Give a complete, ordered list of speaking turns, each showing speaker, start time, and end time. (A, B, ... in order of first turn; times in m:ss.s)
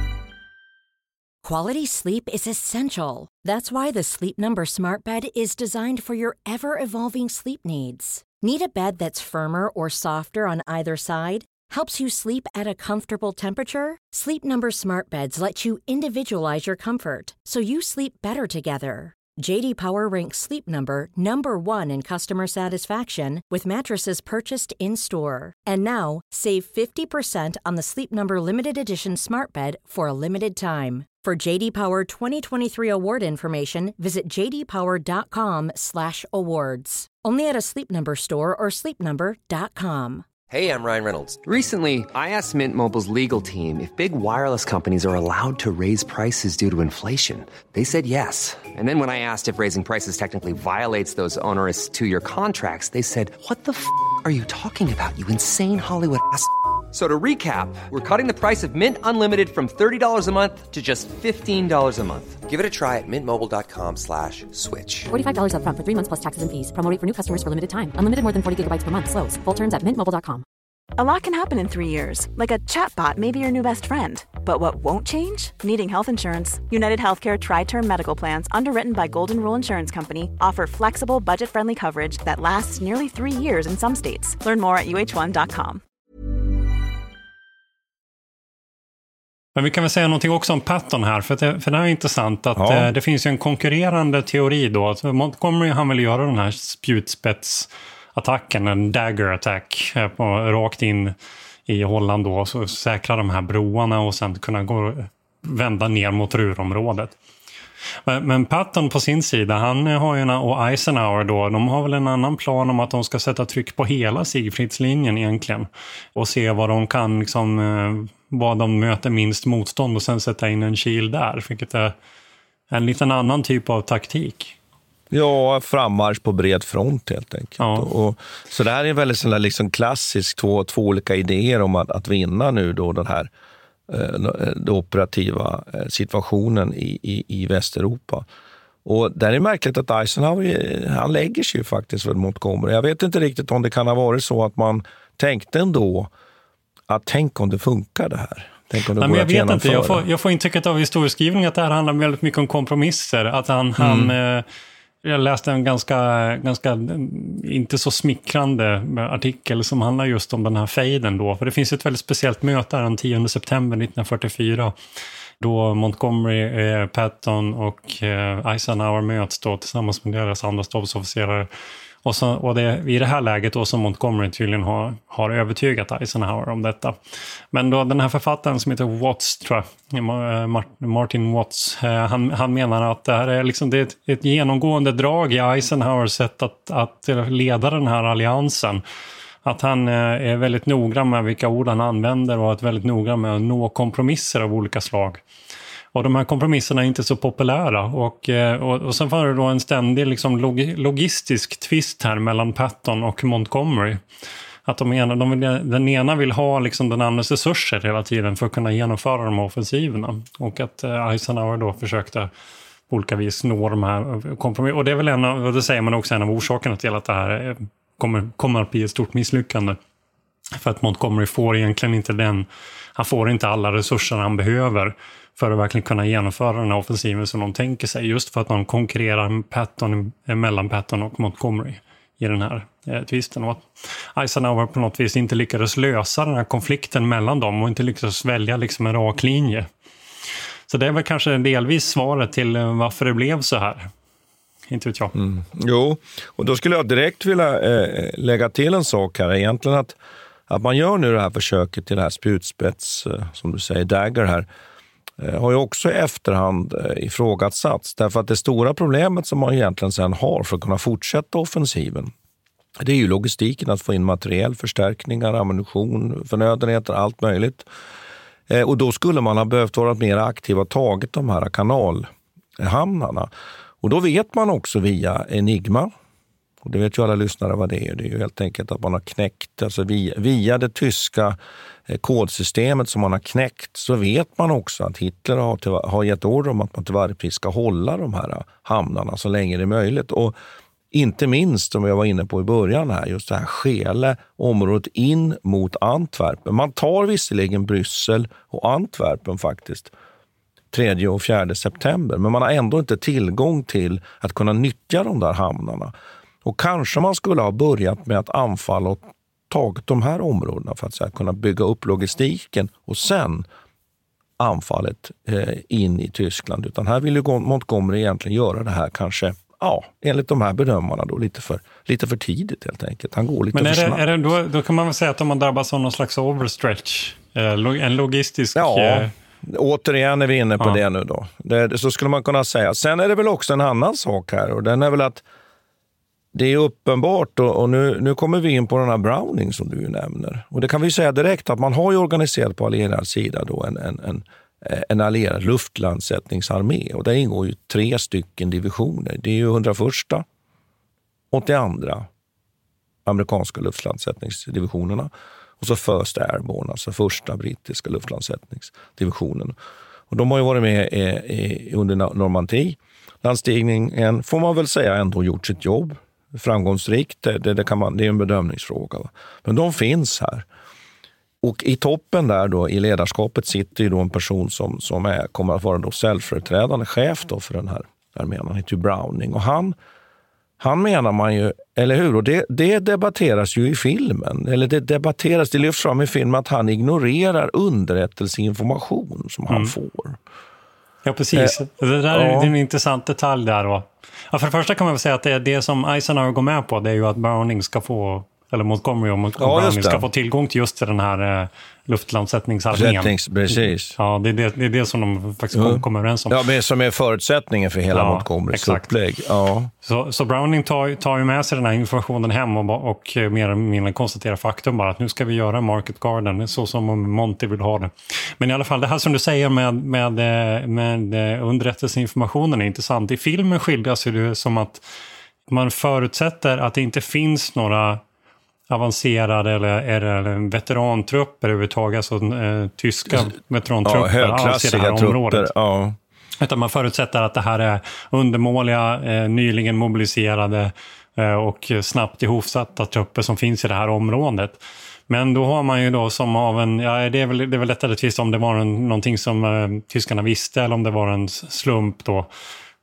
0:01.4-0:40.3 A
0:40.5-1:05.1 B
1:05.1-1:10.4 C
1:11.0-1:25.8 D
1:29.6-1:41.2 E
1:32.6-1:32.9 F
1:41.7-1:47.2 E
1:48.1-2:01.9 E
2:02.7-2:04.6 E
2:05.1-2:13.3 F
2:07.6-2:07.9 E
2:13.9-2:18.3 F
2:18.8-2:26.1 F
2:26.9-2:30.0 F
2:29.0-2:34.4 E
2:33.8-2:34.1 F
2:35.0-2:44.8 E
2:45.4-2:51.5 E
2:52.0-2:57.0 E
2:57.5-3:08.8 E
3:09.4-3:15.2 E
3:15.9-3:24.0 E
3:24.7-3:32.3 E
3:32.9-3:39.8 E
3:40.6-3:59.7 E
4:00.7-4:03.9 E
4:04.7-4:05.1 E
4:05.1-4:14.5 F
4:15.2-4:22.1 F
4:22.8-4:27.7 F
4:28.5-4:33.3 F
4:33.8-4:35.9 F
4:36.6-4:41.4 F
4:41.9-4:50.4 F
4:50.9-4:59.9 F
5:00.7-5:05.9 F
5:06.4-5:13.5 F
5:14.4-5:24.1 F
5:23.5-5:29.1 E
5:28.6-5:35.2 F
5:36.3-5:50.2 F
5:51.3-5:52.1 F
5:53.0-5:59.6 F
6:00.1-6:10.5 F
6:11.4-6:19.8 F
6:20.6-6:30.2 F
6:29.5-6:29.7 E
6:31.0-6:46.4 E
6:31.3-6:31.6 F
6:32.1-6:32.5 F
6:39.4-6:40.1 F
6:42.7-6:44.0 F
6:45.5-6:49.7 F
6:47.9-6:48.9 E
6:49.8-7:04.9 E
7:05.5-7:08.0 E
7:08.7-7:15.5 E
7:13.8-7:16.0 F
7:16.4-7:32.3 E